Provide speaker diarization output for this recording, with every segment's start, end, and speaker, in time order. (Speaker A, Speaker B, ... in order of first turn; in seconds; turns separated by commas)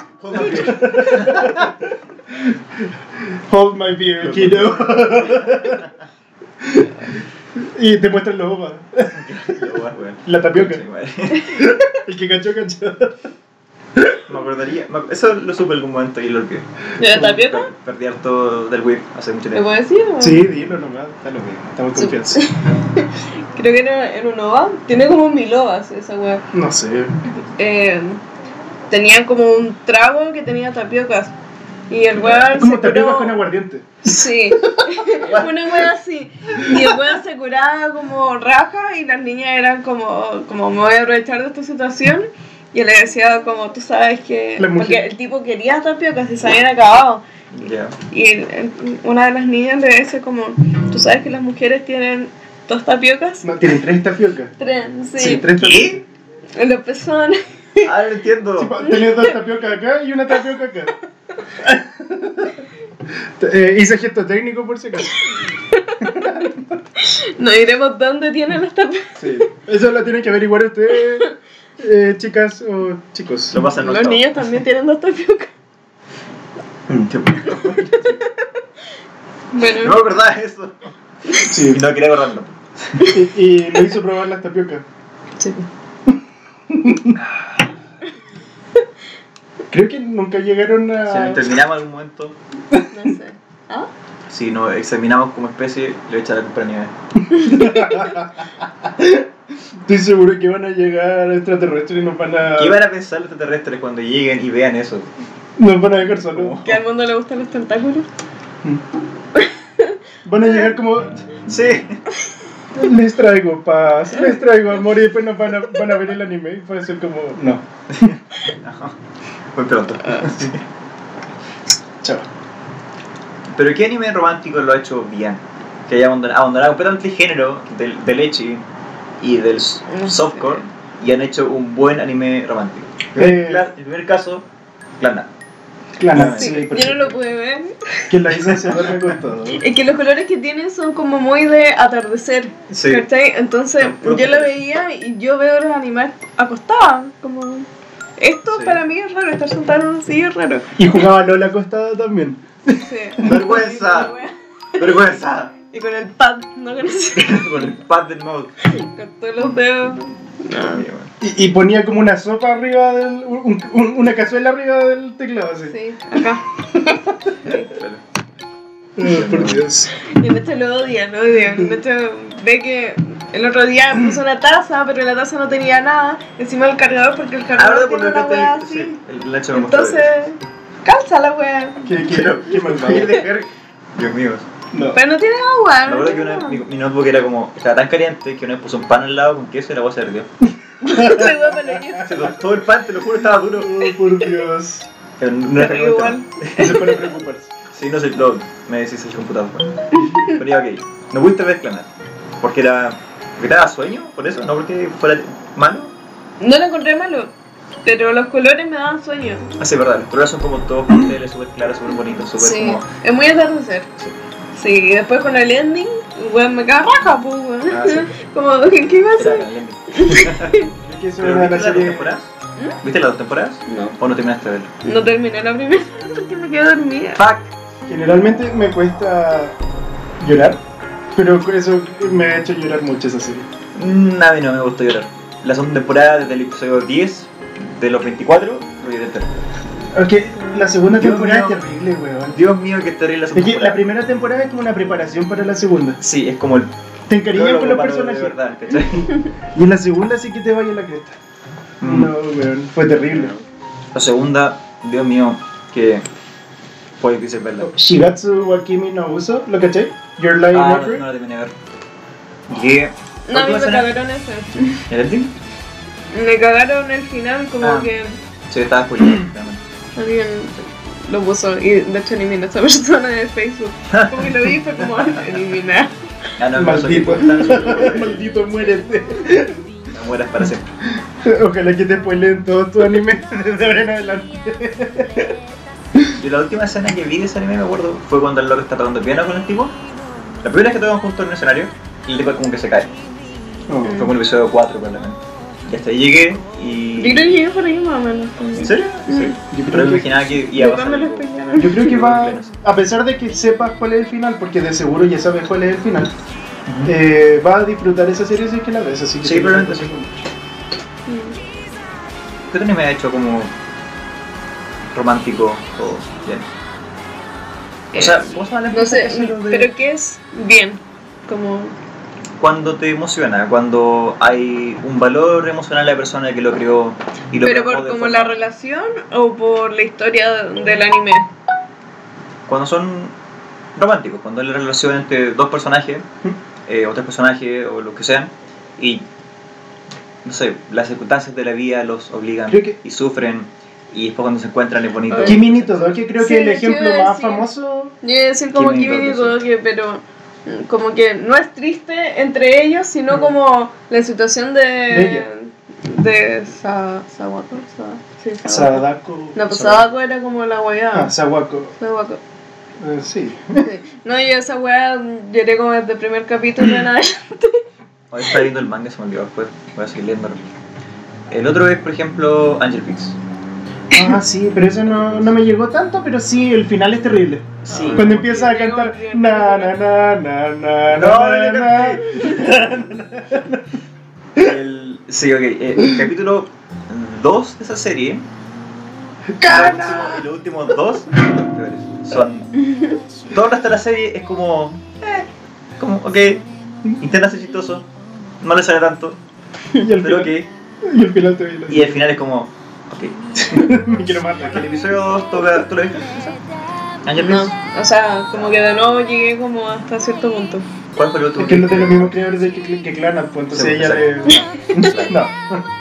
Speaker A: 0.2-1.7, Speaker B: 0.3-5.8, Speaker A: 4.2-5.8, Speaker B: 6.6-10.8, Speaker A: 9.1-11.7, Speaker B: 11.5-13.2, Speaker A: 14.3-16.6, Speaker C: 17.0-17.7, Speaker B: 17.0-17.4, Speaker A: 17.2-19.6, Speaker C: 19.5-20.4, Speaker B: 20.2-22.4, Speaker C: 22.0-26.4, Speaker B: 26.5-27.1, Speaker C: 27.4-28.2, Speaker C: 28.9-31.3, Speaker C: 31.9-33.4, Speaker A: 32.1-32.5, Speaker B: 32.5-35.1, Speaker C: 34.0-47.2, Speaker A: 35.2-35.6, Speaker B: 44.6-45.1, Speaker A: 47.5-48.0, Speaker C: 48.1-53.5, Speaker B: 53.4-54.5, Speaker C: 54.6-55.5, Speaker B: 55.2-56.0, Speaker A: 55.5-56.0, Speaker C: 56.5-57.9, Speaker A: 57.8-58.8, Speaker B: 58.6-60.9, Speaker C: 58.8-59.3, Speaker B: 61.5-62.6, Speaker B: 63.1-66.8, Speaker C: 65.7-66.2, Speaker C: 67.0-69.5, Speaker B: 69.2-73.6, Speaker A: 73.5-74.3, Speaker C: 73.8-75.5, Speaker A: 76.9-78.2, Speaker C: 77.6-78.4, Speaker C: 79.5-80.0, Speaker A: 79.7-83.1, Speaker B: 81.5-81.8, Speaker B: 83.1-84.8, Speaker C: 85.4-85.7, Speaker B: 86.7-87.3, Speaker B: 89.7-91.5, Speaker A: 91.0-92.4, Speaker C: 92.9-93.9, Speaker A: 94.3-96.9, Speaker C: 97.3-98.0, Speaker B: 97.3-102.8, Speaker A: 102.5-105.1, Speaker B: 105.6-106.6, Speaker A: 106.2-106.8, Speaker C: 106.6-108.1, Speaker C: 109.3-110.7, Speaker B: 110.2-111.2, Speaker A: 111.5-112.0, Speaker B: 112.7-117.6, Speaker A: 117.9-118.9, Speaker A: 119.5-120.6, Speaker C: 120.0-120.3, Speaker B: 122.0-122.3, Speaker A: 123.5-128.6, Speaker A: 129.2-134.4, Speaker C: 129.9-130.7, Speaker B: 133.1-133.7, Speaker A: 135.0-135.3, Speaker B: 136.0-137.2, Speaker A: 136.1-136.9, Speaker C: 136.2-138.1, Speaker B: 138.1-139.6, Speaker C: 139.6-147.7, Speaker A: 142.7-143.0, Speaker A: 143.8-144.5, Speaker C: 148.2-150.7, Speaker A: 148.5-148.8, Speaker B: 150.8-153.4, Speaker C: 152.7-155.0, Speaker A: 153.2-154.2, Speaker A: 154.8-155.5, Speaker C: 155.7-157.5, Speaker A: 157.2-158.5, Speaker C: 158.6-160.8, Speaker A: 159.4-159.7, Speaker A: 160.6-161.1, Speaker B: 161.2-165.7, Speaker C: 165.7-166.8, Speaker C: 167.4-167.7, Speaker A: 167.5-168.0, Speaker B: 169.0-169.9, Speaker A: 169.0-169.6, Speaker C: 170.0-179.0, Speaker A: 177.6-180.1, Speaker C: 179.5-181.9, Speaker B: 181.8-183.2, Speaker A: 182.0-184.5, Speaker C: 182.9-183.2, Speaker B: 184.7-185.0, Speaker C: 184.9-186.6, Speaker A: 185.8-190.3, Speaker C: 190.8-192.3, Speaker B: 190.9-192.0, Speaker A: 192.0-193.8, Speaker B: 193.4-194.9, Speaker A: 195.2-197.0, Speaker C: 195.5-197.1, Speaker B: 196.6-197.5, Speaker A: 197.7-201.9, Speaker C: 199.9-200.3, Speaker A: 202.4-205.9, Speaker C: 206.4-207.3, Speaker C: 207.8-209.5, Speaker A: 209.6-212.8, Speaker C: 212.2-213.9, Speaker C: 214.5-220.7, Speaker A: 217.7-218.1, Speaker A: 219.2-220.6, Speaker B: 220.8-222.2, Speaker A: 221.2-222.3, Speaker A: 222.8-224.7, Speaker C: 223.7-224.0, Speaker C: 224.8-227.2, Speaker A: 227.2-227.5, Speaker B: 227.9-229.5, Speaker B: 230.2-230.6, Speaker B: 231.1-233.5, Speaker A: 233.7-239.3, Speaker B: 239.9-242.4, Speaker A: 240.9-241.6, Speaker A: 242.3-243.8, Speaker B: 243.3-246.0, Speaker A: 246.0-246.7, Speaker B: 247.1-248.4, Speaker A: 247.3-249.1, Speaker B: 249.5-251.2, Speaker A: 251.8-252.1, Speaker B: 251.8-253.3, Speaker A: 253.9-256.0, Speaker A: 257.0-257.7, Speaker B: 257.6-261.0, Speaker A: 260.5-261.5, Speaker A: 262.5-263.9, Speaker C: 263.3-264.9, Speaker A: 264.9-265.3, Speaker C: 266.1-268.2, Speaker A: 267.6-267.9, Speaker A: 268.5-269.6, Speaker C: 270.0-275.9, Speaker A: 273.9-275.2, Speaker A: 276.4-278.2, Speaker B: 276.5-279.6, Speaker A: 279.9-280.7, Speaker B: 280.9-285.3, Speaker A: 286.2-289.7, Speaker A: 290.4-292.9, Speaker B: 293.7-294.1, Speaker C: 293.8-294.1, Speaker A: 293.9-297.4, Speaker C: 297.0-299.4, Speaker A: 298.6-302.5, Speaker B: 299.4-300.3, Speaker C: 300.5-301.9, Speaker B: 301.5-306.1, Speaker A: 306.7-306.9, Speaker B: 306.8-310.2, Speaker A: 309.2-309.9, Speaker C: 311.1-311.4, Speaker A: 312.5-313.5, Speaker A: 314.9-316.4, Speaker C: 317.9-321.7, Speaker A: 317.9-319.7, Speaker A: 322.4-328.4, Speaker C: 327.4-331.3, Speaker A: 332.5-333.1, Speaker A: 333.8-336.1, Speaker A: 336.7-339.0, Speaker A: 340.2-345.9, Speaker B: 342.5-342.8, Speaker C: 345.1-345.4, Speaker B: 345.2-347.9, Speaker C: 346.2-347.5, Speaker C: 348.0-361.1, Speaker A: 348.5-349.4, Speaker B: 354.9-355.2, Speaker B: 358.4-359.8, Speaker B: 360.9-361.7, Speaker C: 361.8-362.2, Speaker B: 362.8-363.7, Speaker C: 363.6-367.6, Speaker A: 368.1-370.4, Speaker A: 371.3-373.2, Speaker B: 373.9-383.6, Speaker A: 374.9-375.3, Speaker C: 377.7-379.8, Speaker A: 377.7-378.1, Speaker A: 380.9-382.4, Speaker A: 384.4-388.2, Speaker B: 389.4-390.2, Speaker A: 389.4-392.6, Speaker A: 393.3-395.3, Speaker A: 395.8-396.4, Speaker A: 397.0-397.9, Speaker A: 398.4-399.2, Speaker B: 399.7-402.0, Speaker A: 400.0-400.5, Speaker A: 401.7-403.7, Speaker B: 403.4-404.7, Speaker A: 404.4-406.4, Speaker A: 407.0-407.5, Speaker C: 407.2-410.6, Speaker A: 410.9-412.1, Speaker B: 411.4-415.6, Speaker A: 413.5-415.1, Speaker C: 414.3-414.9